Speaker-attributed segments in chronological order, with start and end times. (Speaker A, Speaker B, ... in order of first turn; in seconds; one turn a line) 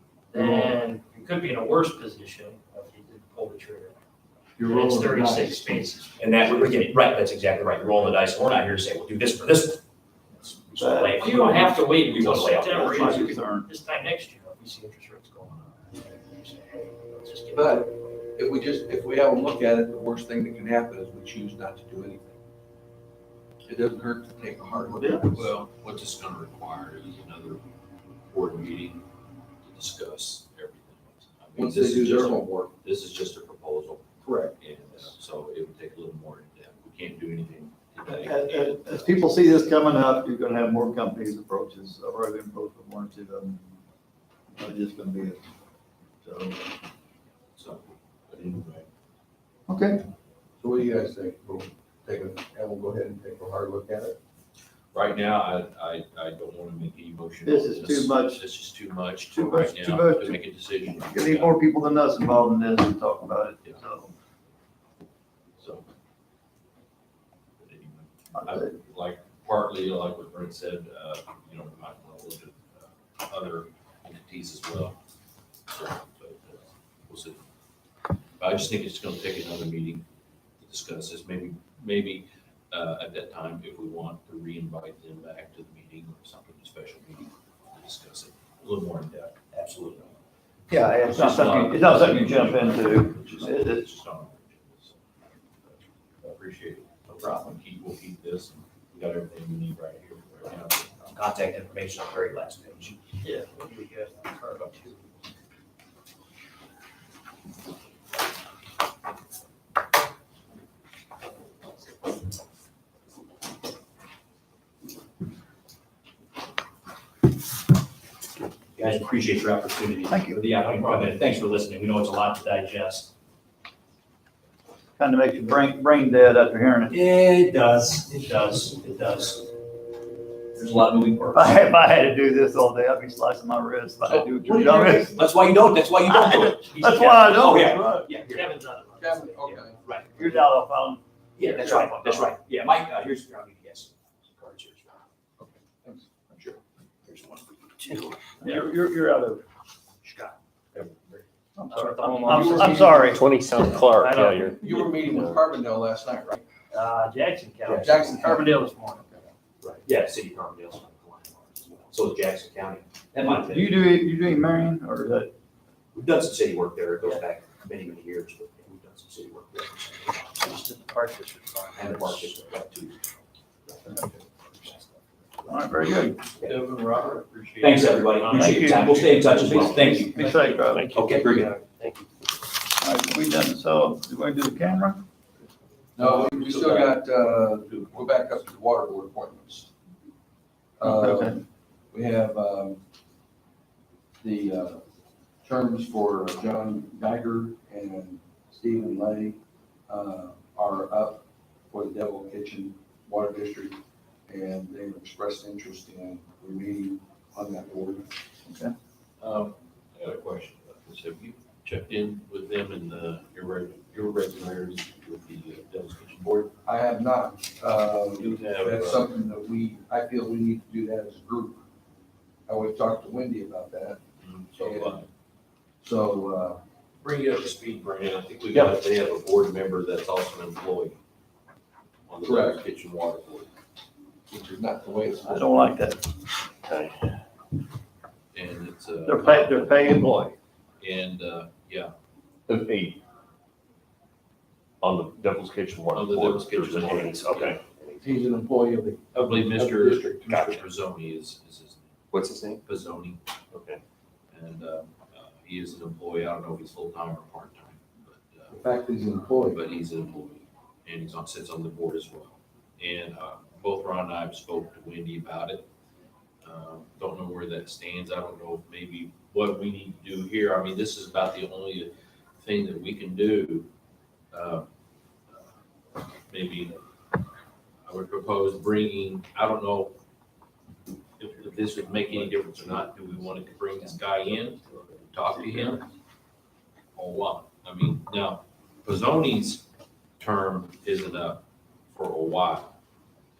Speaker A: 0.3-4.0
Speaker B: 0.3-0.7
Speaker B: 4.6-5.8
Speaker A: 4.6-6.8
Speaker C: 6.2-9.8
Speaker C: 10.4-13.3
Speaker D: 10.8-11.8
Speaker A: 11.1-17.9
Speaker D: 12.6-13.7
Speaker B: 17.5-22.4
Speaker B: 23.7-25.5
Speaker E: 25.3-27.6
Speaker E: 28.3-29.1
Speaker E: 29.6-39.7
Speaker B: 31.6-32.7
Speaker B: 34.2-34.5
Speaker D: 38.1-43.7
Speaker D: 44.5-45.4
Speaker D: 46.2-46.6
Speaker E: 47.5-48.9
Speaker D: 49.7-50.0
Speaker B: 50.6-54.2
Speaker E: 54.9-61.6
Speaker D: 57.4-58.4
Speaker D: 59.3-64.1
Speaker E: 65.6-65.8
Speaker E: 67.6-75.0
Speaker D: 68.4-68.6
Speaker E: 75.7-77.4
Speaker E: 78.4-80.0
Speaker E: 80.6-89.4
Speaker C: 89.5-90.1
Speaker D: 90.7-93.8
Speaker C: 91.1-92.3
Speaker E: 91.1-95.0
Speaker E: 95.6-101.1
Speaker C: 101.1-103.0
Speaker A: 103.2-105.1
Speaker C: 118.8-123.1
Speaker D: 120.1-120.4
Speaker D: 125.0-126.9
Speaker C: 126.9-129.4
Speaker C: 130.6-131.6
Speaker D: 131.3-135.2
Speaker B: 134.1-134.9
Speaker C: 134.5-138.5
Speaker D: 136.1-138.1
Speaker A: 138.2-139.7
Speaker B: 139.0-139.8
Speaker C: 139.8-140.4
Speaker D: 140.2-141.0
Speaker C: 141.4-144.9
Speaker A: 141.6-142.2
Speaker B: 145.4-146.2
Speaker C: 146.4-148.2
Speaker D: 148.4-149.4
Speaker A: 150.0-150.3
Speaker C: 150.8-151.2
Speaker D: 151.6-153.2
Speaker A: 151.7-153.2
Speaker B: 152.3-153.1
Speaker F: 152.7-155.4
Speaker A: 153.8-154.6
Speaker B: 154.6-156.4
Speaker A: 156.7-159.2
Speaker F: 157.7-158.0
Speaker B: 157.8-158.5
Speaker C: 159.6-163.9
Speaker D: 163.2-165.3
Speaker C: 165.9-170.4
Speaker A: 170.3-172.4
Speaker C: 171.8-173.0
Speaker C: 173.7-176.6
Speaker D: 175.5-176.2
Speaker E: 176.4-178.6
Speaker C: 177.6-180.3
Speaker D: 178.3-180.9
Speaker A: 179.4-182.1
Speaker C: 180.8-181.5
Speaker F: 181.1-181.4
Speaker D: 182.8-185.0
Speaker B: 186.0-189.7
Speaker E: 186.0-188.4
Speaker B: 190.8-192.8
Speaker D: 190.8-191.4
Speaker B: 194.2-194.8
Speaker B: 195.4-208.1
Speaker D: 208.4-208.8
Speaker E: 209.2-216.5
Speaker B: 216.7-221.6
Speaker E: 218.2-219.1
Speaker B: 222.5-224.0
Speaker E: 224.2-225.1
Speaker B: 224.6-225.0
Speaker B: 225.8-226.6
Speaker E: 227.0-231.0
Speaker E: 232.1-233.5
Speaker B: 232.2-232.6
Speaker B: 234.3-235.8
Speaker D: 235.2-236.0
Speaker F: 236.6-237.1
Speaker E: 238.3-240.1
Speaker D: 239.0-240.4
Speaker E: 240.8-241.9
Speaker F: 242.5-243.0
Speaker F: 244.8-248.1
Speaker E: 245.9-247.6
Speaker B: 248.0-250.6
Speaker E: 249.1-251.9
Speaker F: 252.1-252.6
Speaker E: 252.6-253.2
Speaker F: 253.5-253.8
Speaker E: 254.3-258.6
Speaker B: 258.5-259.6
Speaker E: 259.5-265.7
Speaker E: 266.4-273.7
Speaker E: 274.3-274.7
Speaker E: 276.3-276.8
Speaker E: 277.9-280.0
Speaker E: 281.2-285.9
Speaker E: 286.9-289.7
Speaker E: 290.2-292.7